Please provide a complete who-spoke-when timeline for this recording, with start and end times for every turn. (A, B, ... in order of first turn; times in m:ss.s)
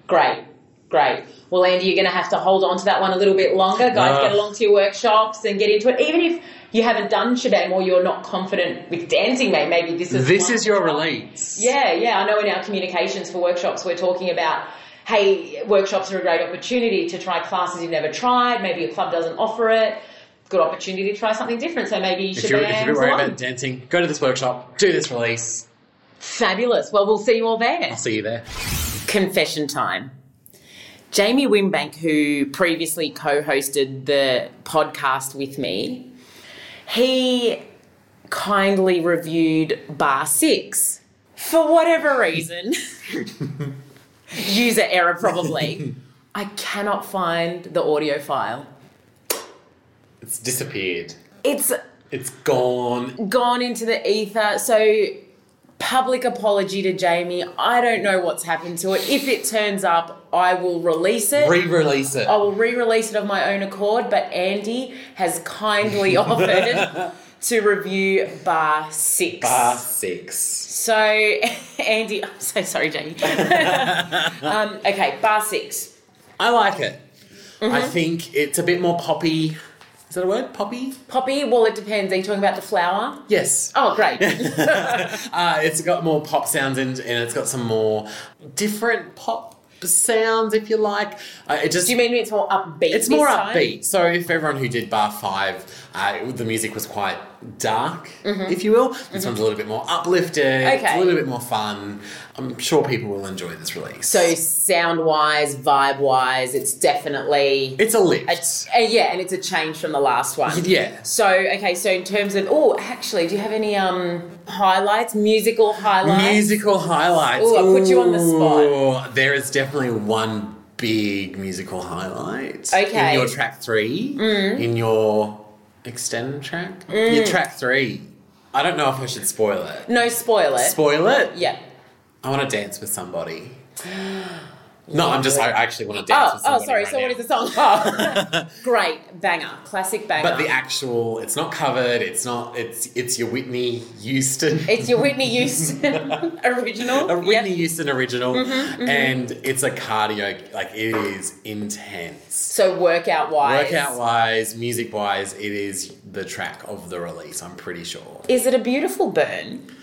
0:00.1-0:23.4 A
0:03.8-0:04.4 B
0:10.1-0:11.7 B
0:22.4-0:25.7 B
0:26.2-0:28.0 A
0:27.9-0:28.4 B
0:29.1-0:30.1 A
0:31.1-0:36.1 A
0:36.9-0:37.6 A
0:38.3-0:42.8 A
0:44.3-0:48.7 A
0:50.2-0:51.2 B
0:51.4-0:51.8 A
0:52.1-0:53.2 B
0:53.2-0:55.2 A
0:55.8-1:01.6 A
1:01.4-1:02.3 B
1:02.2-1:09.8 A
1:06.1-1:07.1 B
1:09.4-1:10.7 B
1:10.6-1:15.9 A
1:13.3-1:14.5 B
1:16.4-1:17.0 B
1:17.6-1:18.0 A
1:17.6-1:19.6 B
1:20.1-1:21.0 B
1:21.1-1:25.1 A
1:23.3-1:32.0 B
1:31.8-1:33.8 A
1:32.9-1:44.3 B
1:38.2-1:38.6 A
1:40.6-1:41.2 A
1:44.1-1:56.4 A
1:47.8-1:48.7 B
1:50.5-1:51.1 B
1:56.0-2:09.9 B
1:57.4-1:58.8 A
2:02.7-2:03.3 A
2:04.2-2:04.7 A
2:06.9-2:07.4 A
2:09.9-2:10.8 A
2:10.6-2:11.4 B
2:11.3-2:11.6 A
2:12.2-2:18.6 B
2:14.9-2:15.5 A
2:16.1-2:20.5 A
2:20.2-2:26.2 B
2:24.7-2:27.5 A
2:26.9-2:32.5 B
2:28.3-2:29.1 A
2:32.5-2:34.0 A
2:33.4-2:38.3 B
2:38.3-2:39.6 A